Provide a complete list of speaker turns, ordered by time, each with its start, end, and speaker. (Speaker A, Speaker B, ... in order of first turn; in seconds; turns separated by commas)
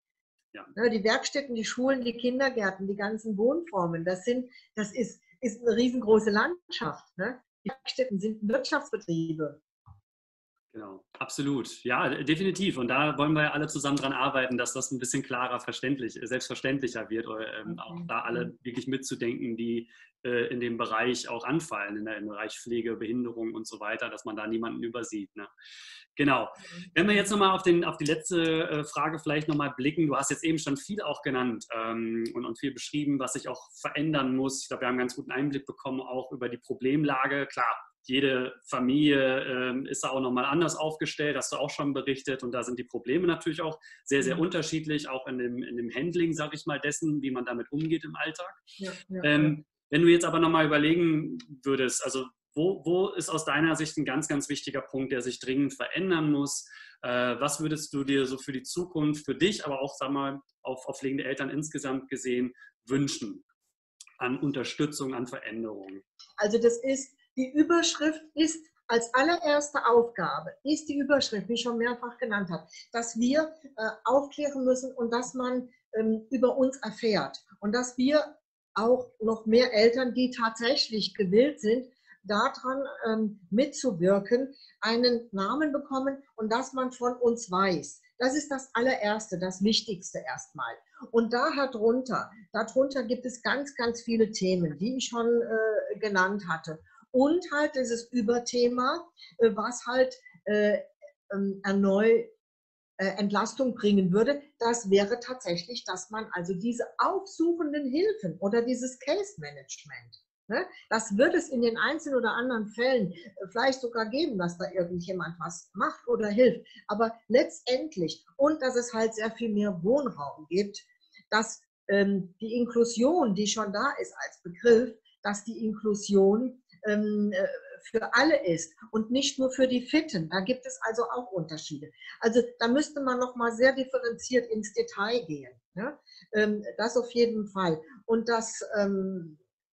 Speaker A: 0.8-9.6, Speaker B: 10.7-25.5, Speaker A: 17.7-18.5, Speaker B: 26.2-48.6, Speaker A: 48.8-49.6, Speaker B: 49.2-63.4, Speaker B: 64.2-66.0, Speaker A: 66.4-102.3, Speaker A: 103.0-139.4